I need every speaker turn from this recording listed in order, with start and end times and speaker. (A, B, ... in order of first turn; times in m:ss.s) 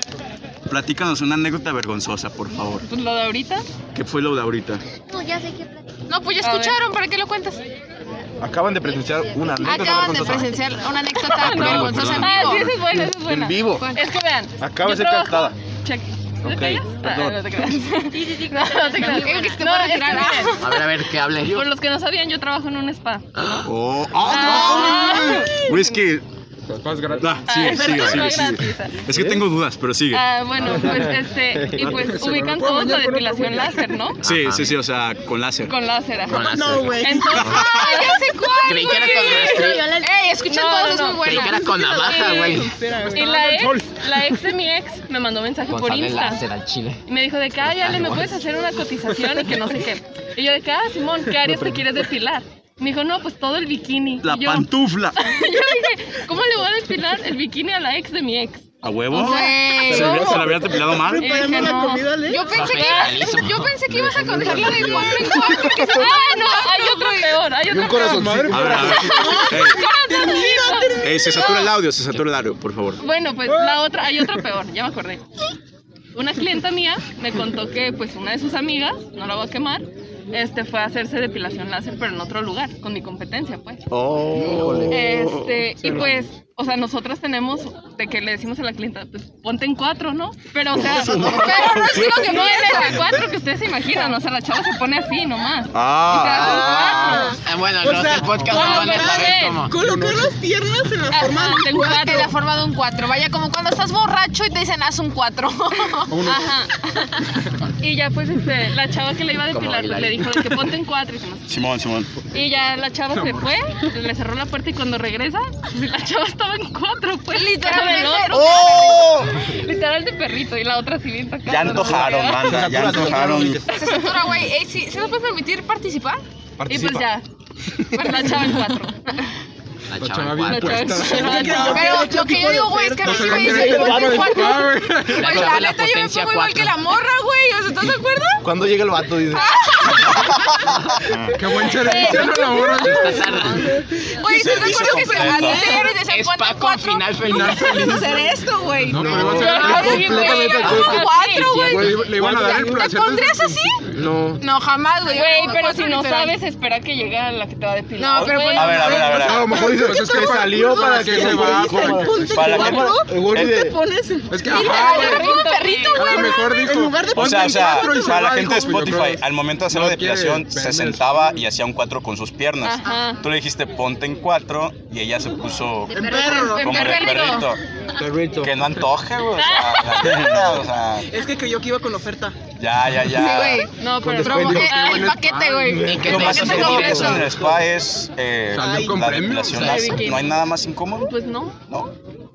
0:00.7-0:02.9 A
0:02.9-0:03.7 B
0:04.0-0:04.8 A
0:05.1-0:05.9 C
0:06.1-0:07.6 D
0:06.4-0:06.8 B
0:08.4-0:10.6 E
0:08.9-0:10.8 C
0:09.6-0:12.8 D
0:11.2-0:23.3 B
0:11.4-0:12.8 A
0:13.0-0:13.9 E
0:13.7-0:14.0 D
0:14.6-0:15.6 E
0:16.4-0:17.4 E
0:18.1-0:19.6 C
0:18.9-0:20.8 D
0:20.6-0:21.7 F
0:23.4-0:23.7 F
0:23.6-0:26.2 A
0:24.2-0:26.0 B
0:26.7-0:27.8 G
0:27.2-0:30.3 A
0:27.4-0:29.0 B
0:29.1-0:29.4 E
0:30.1-0:34.2 B
0:31.7-0:32.1 E
0:31.8-0:33.8 G
0:34.2-0:34.8 F
0:34.2-0:35.7 A
0:35.6-0:39.7 B
0:36.3-0:37.6 F
0:36.3-0:37.7 H
0:37.4-0:38.0 A
0:37.6-0:42.5 D
0:38.6-0:40.0 F
0:39.5-0:40.0 H
0:40.4-0:42.6 B
0:41.2-0:42.8 F
0:41.5-0:43.7 H
0:43.1-0:46.5 B
0:43.5-0:43.7 G
0:45.7-0:47.0 F
0:47.1-1:00.1 B
0:47.6-0:48.4 F
0:54.2-0:55.2 A
0:58.8-1:01.7 A
0:59.1-1:00.5 D
1:00.0-1:02.5 H
1:01.2-1:03.4 B
1:02.2-1:07.4 D
1:02.5-1:03.7 F
1:03.9-1:05.9 E
1:05.5-1:11.1 B
1:07.7-1:09.0 E
1:08.0-1:09.3 G
1:08.5-1:09.9 A
1:09.0-1:10.6 D
1:09.1-1:11.7 H
1:11.0-1:13.0 A
1:13.0-1:15.2 B
1:13.5-1:13.8 G
1:16.1-1:23.8 B
1:23.9-1:26.1 A
1:24.3-1:25.0 E
1:24.9-1:37.4 B
1:30.7-1:32.8 A
1:30.8-1:31.2 E
1:31.2-1:33.1 D
1:35.7-1:37.4 A
1:36.3-1:42.3 H
1:37.4-1:39.8 F
1:38.4-1:39.7 B
1:38.5-1:39.1 D
1:39.8-1:40.4 G
1:41.1-1:42.3 B
1:42.0-1:46.3 D
1:46.1-1:46.5 G
1:46.2-1:47.0 B
1:47.8-1:51.6 B
1:49.5-1:50.4 F
1:51.5-1:52.1 A
1:52.3-2:02.6 B
1:57.3-1:59.1 D
1:58.3-1:59.5 A
2:01.5-2:03.6 A
2:01.9-2:03.7 E
2:03.7-2:06.2 D
2:03.8-2:04.2 B
2:06.6-2:07.1 E
2:06.7-2:07.2 B
2:07.9-2:09.3 B
2:08.0-2:08.6 D
2:09.9-2:11.3 F
2:10.0-2:11.7 G
2:10.4-2:12.1 B
2:11.1-2:13.6 H
2:11.4-2:18.5 D
2:13.0-2:15.4 G
2:13.3-2:14.6 E
2:15.1-2:16.8 F
2:18.4-2:19.5 E
2:19.3-2:20.2 D
2:21.3-2:23.7 G
2:21.8-2:22.9 D
2:22.0-2:22.3 B
2:22.7-2:23.8 F
2:24.0-2:36.4 D
2:24.2-2:25.8 A
2:25.5-2:25.8 B
2:26.0-2:27.8 F
2:27.2-2:28.3 G
2:28.9-2:30.2 G
2:28.9-2:32.6 E
2:29.3-2:31.6 B
2:30.6-2:32.1 F
2:31.8-2:33.8 G
2:33.9-2:34.4 E
2:35.0-2:39.3 B
2:38.0-2:39.4 D
2:38.2-2:39.7 A
2:39.1-2:43.8 E
2:39.4-2:42.6 G
2:40.2-2:45.1 H
2:42.2-2:43.0 A
2:44.3-2:45.3 G
2:44.4-2:46.6 D
2:44.5-2:46.4 B
2:46.0-2:51.3 G
2:46.1-2:49.0 H
2:47.1-2:57.6 A
2:52.6-2:53.2 B
2:55.9-2:56.7 C
2:55.9-2:56.9 H
2:56.4-2:57.5 B
2:56.7-2:57.5 D
2:58.0-2:58.6 E
2:58.4-3:01.1 A
2:59.4-3:00.5 B
3:01.1-3:02.4 H
3:02.6-3:03.7 A
3:03.1-3:07.3 D
3:03.7-3:05.2 B
3:04.0-3:04.4 E
3:04.2-3:05.8 G
3:05.6-3:07.6 E
3:05.8-3:07.2 F
3:06.0-3:11.1 A
3:08.5-3:09.7 G
3:08.6-3:09.2 H
3:09.5-3:10.4 B
3:09.5-3:09.8 F
3:09.7-3:10.1 D
3:11.0-3:11.6 B
3:11.7-3:11.9 A